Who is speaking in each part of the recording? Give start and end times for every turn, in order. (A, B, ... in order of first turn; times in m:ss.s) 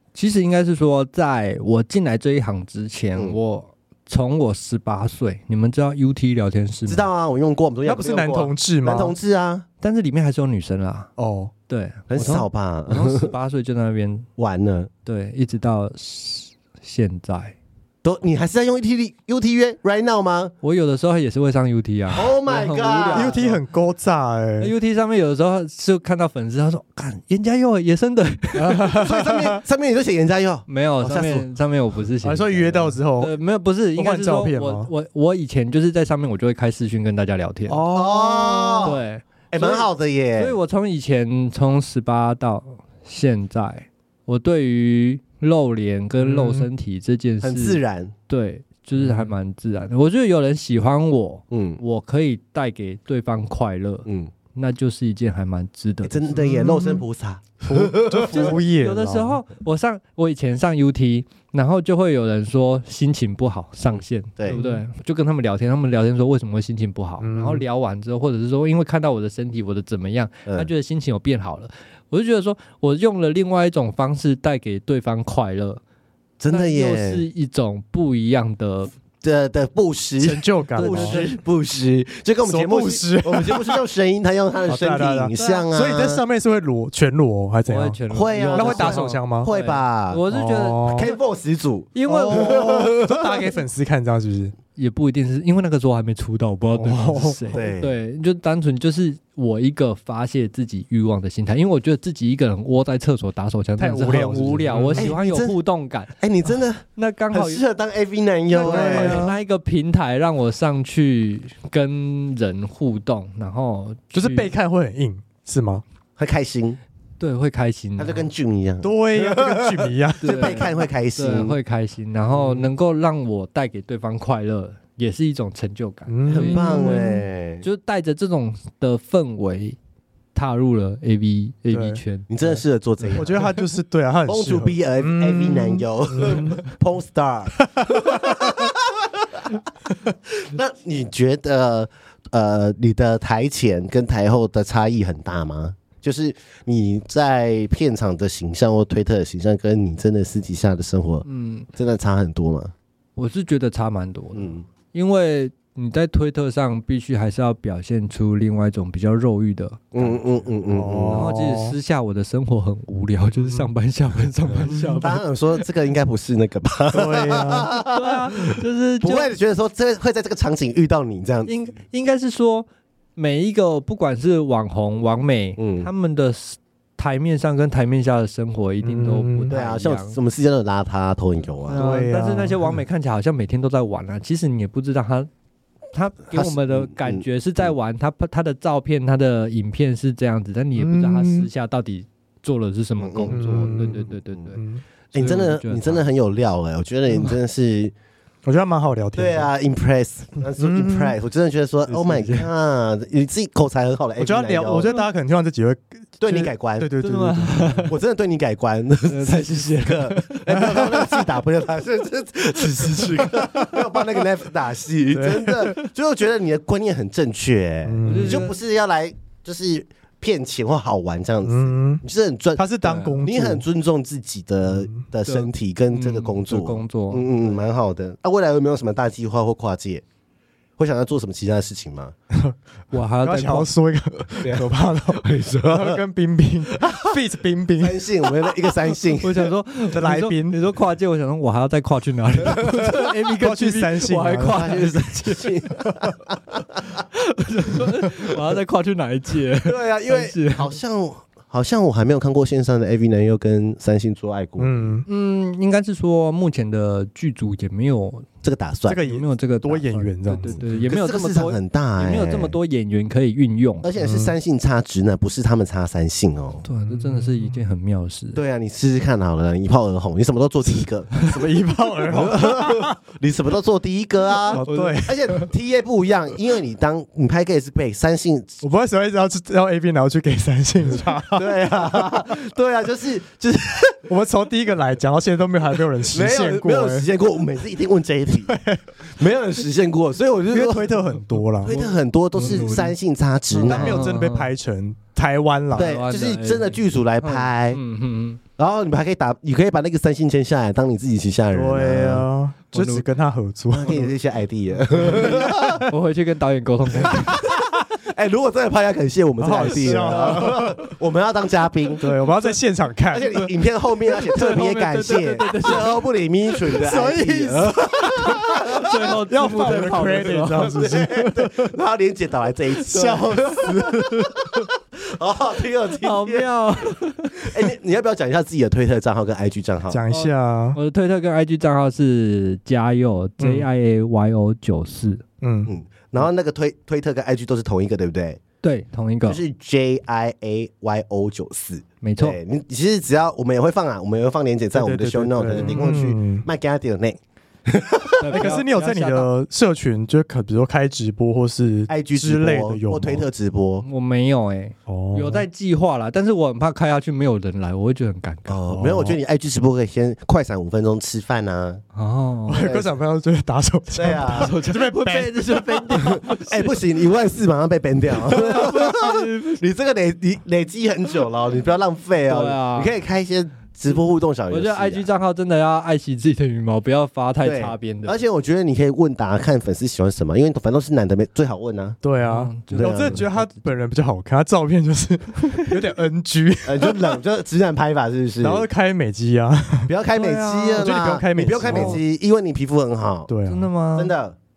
0:00.2-0:07.1 A
0:06.9-0:09.6 B
0:07.8-0:09.2 C
0:09.8-0:11.1 A
0:11.2-0:11.5 C
0:11.7-0:14.3 A
0:12.1-0:13.3 B
0:14.4-0:14.9 B
0:15.0-0:17.6 A
0:18.0-0:20.5 B
0:20.6-0:23.6 A
0:22.1-0:23.5 B
0:23.1-0:24.7 C
0:24.6-0:28.9 A
0:28.6-0:29.6 C
0:28.9-0:31.5 B
0:30.7-0:37.8 A
0:32.2-0:33.3 C
0:34.0-0:34.9 C
0:37.7-0:39.0 C
0:37.9-0:39.0 B
0:38.8-0:56.6 A
0:39.5-0:40.6 B
0:46.2-0:46.7 C
0:47.4-0:48.1 B
0:49.0-0:49.3 C
0:51.5-0:51.8 B
0:54.1-0:54.3 B
0:56.0-0:58.6 B
0:56.4-0:57.0 C
0:57.6-0:59.4 C
0:58.2-1:15.8 A
1:04.5-1:04.8 C
1:07.2-1:07.6 C
1:16.4-1:17.2 B
1:16.5-1:18.9 A
1:19.2-1:26.2 B
1:20.2-1:21.2 C
1:20.8-1:21.4 A
1:22.4-1:23.8 C
1:24.7-1:29.5 C
1:25.4-1:25.7 A
1:27.7-1:31.1 A
1:28.1-1:30.2 B
1:30.3-1:31.1 C
1:30.9-1:33.5 B
1:31.9-1:32.9 A
1:32.1-1:34.6 C
1:34.8-1:46.1 A
1:36.8-1:37.6 C
1:37.5-1:37.9 B
1:43.8-1:45.1 C
1:45.0-1:45.6 B
1:46.1-1:49.3 B
1:47.0-1:47.6 A
1:48.5-1:49.4 C
1:48.6-1:54.5 A
1:54.1-1:55.8 C
1:56.2-1:56.8 B
1:57.2-1:58.2 A
1:58.0-2:01.6 B
1:58.8-2:00.8 C
2:00.2-2:09.8 A
2:06.1-2:07.2 C
2:06.3-2:07.6 B
2:10.4-2:12.3 A
2:11.7-2:12.0 C
2:12.3-2:13.6 B
2:13.2-2:16.6 C
2:14.3-2:19.6 B
2:17.8-2:18.4 C
2:20.3-2:31.2 B
2:31.2-2:31.7 A
2:31.8-2:32.7 B
2:33.2-2:40.2 A
2:34.3-2:34.6 B
2:39.9-2:41.3 B
2:40.7-2:41.8 C
2:41.1-2:45.2 A
2:44.6-2:45.1 C
2:45.0-2:48.4 B
2:46.9-2:47.7 C
2:47.9-2:49.3 A
2:49.0-2:51.5 B
2:51.5-3:00.2 A
2:55.6-2:55.9 B
2:58.8-2:59.5 C
2:59.5-3:01.8 B
3:01.7-3:05.3 A
3:01.8-3:02.8 C
3:05.9-3:14.6 A
3:06.3-3:07.2 B
3:10.8-3:11.5 C
3:13.0-3:14.5 B
3:13.3-3:14.0 C
3:14.6-3:14.8 C
3:15.1-3:16.0 A
3:15.1-3:17.9 B
3:18.5-3:19.5 C
3:19.2-3:24.9 B
3:20.4-3:21.2 C
3:21.9-3:22.5 A
3:24.2-3:27.9 C
3:26.2-3:26.9 B
3:27.0-3:27.9 A
3:27.8-3:42.6 B
3:29.1-3:30.8 A
3:30.6-3:31.1 C
3:33.4-3:33.7 C
3:35.1-3:35.8 C
3:37.8-3:38.5 C
3:38.0-3:38.6 A
3:41.4-3:42.0 C
3:42.6-3:43.6 C
3:42.8-3:43.2 A
3:43.2-3:50.0 B
3:44.7-3:45.0 C
3:45.3-3:47.5 A
3:50.8-3:52.2 B
3:52.9-3:53.7 A
3:53.2-3:58.0 C
3:54.3-3:56.0 B
3:56.7-3:57.2 B
3:57.8-3:59.5 B
3:59.2-4:05.6 A
3:59.9-4:00.6 C
4:03.4-4:04.7 C
4:04.5-4:06.8 B
4:07.1-4:10.7 A
4:09.6-4:15.0 B
4:14.6-4:15.0 C
4:15.1-4:18.3 A
4:18.4-4:19.0 B
4:18.9-4:20.7 C
4:18.9-4:23.9 A
4:20.5-4:22.6 B
4:23.8-4:26.6 B
4:24.0-4:24.3 C
4:26.6-4:28.4 A
4:26.9-4:27.6 C
4:28.4-4:31.5 B
4:31.2-4:33.0 C
4:32.1-4:38.6 B
4:34.5-4:35.4 C
4:34.6-4:35.5 A
4:38.6-4:41.5 C
4:41.3-4:44.0 B
4:44.1-4:47.1 C
4:46.0-4:51.0 B
4:48.4-4:48.8 C
4:50.5-4:51.7 C
4:51.6-4:54.1 B
4:51.7-4:52.9 A
4:52.4-4:52.8 C
4:53.6-4:56.0 C
4:53.6-4:54.5 A
4:55.7-4:58.4 A
4:55.8-4:57.8 B
4:58.6-5:02.3 B
5:01.5-5:04.1 C
5:02.7-5:03.0 A
5:03.7-5:05.9 B
5:05.1-5:05.4 C
5:05.9-5:07.4 A
5:07.0-5:12.1 B
5:09.4-5:10.8 C
5:12.0-5:13.5 C
5:13.1-5:26.5 B
5:14.3-5:16.0 A
5:16.8-5:18.4 C
5:18.3-5:20.8 A
5:19.3-5:21.7 C
5:23.0-5:23.3 A
5:26.0-5:27.5 A
5:27.4-5:30.0 B
5:29.9-5:30.8 C
5:30.1-5:35.2 A
5:33.4-5:33.7 C
5:35.4-5:35.7 C
5:35.6-5:38.4 B
5:38.6-5:39.4 A
5:39.3-5:48.5 B
5:42.0-5:42.4 A
5:44.8-5:46.5 C
5:48.2-5:49.3 A
5:48.3-5:53.2 C
5:51.9-5:53.8 B
5:53.8-5:58.6 A
5:54.9-5:55.4 C
5:58.5-6:01.8 B
5:58.7-5:59.2 C
6:01.9-6:02.7 A
6:02.5-6:06.1 C
6:02.6-6:02.9 B
6:03.9-6:04.6 B
6:04.3-6:06.8 A
6:05.9-6:15.0 B
6:08.3-6:09.6 A
6:12.3-6:12.9 A
6:14.5-6:18.2 A
6:17.4-6:22.0 B
6:22.0-6:27.2 C
6:22.2-6:23.7 A
6:22.7-6:23.2 B
6:26.6-6:28.7 B
6:28.4-6:29.9 C
6:29.9-6:33.3 B
6:30.1-6:30.9 A
6:30.8-6:32.0 C
6:31.7-6:32.0 A
6:33.3-6:33.7 C
6:33.5-6:34.1 A
6:34.0-6:34.4 B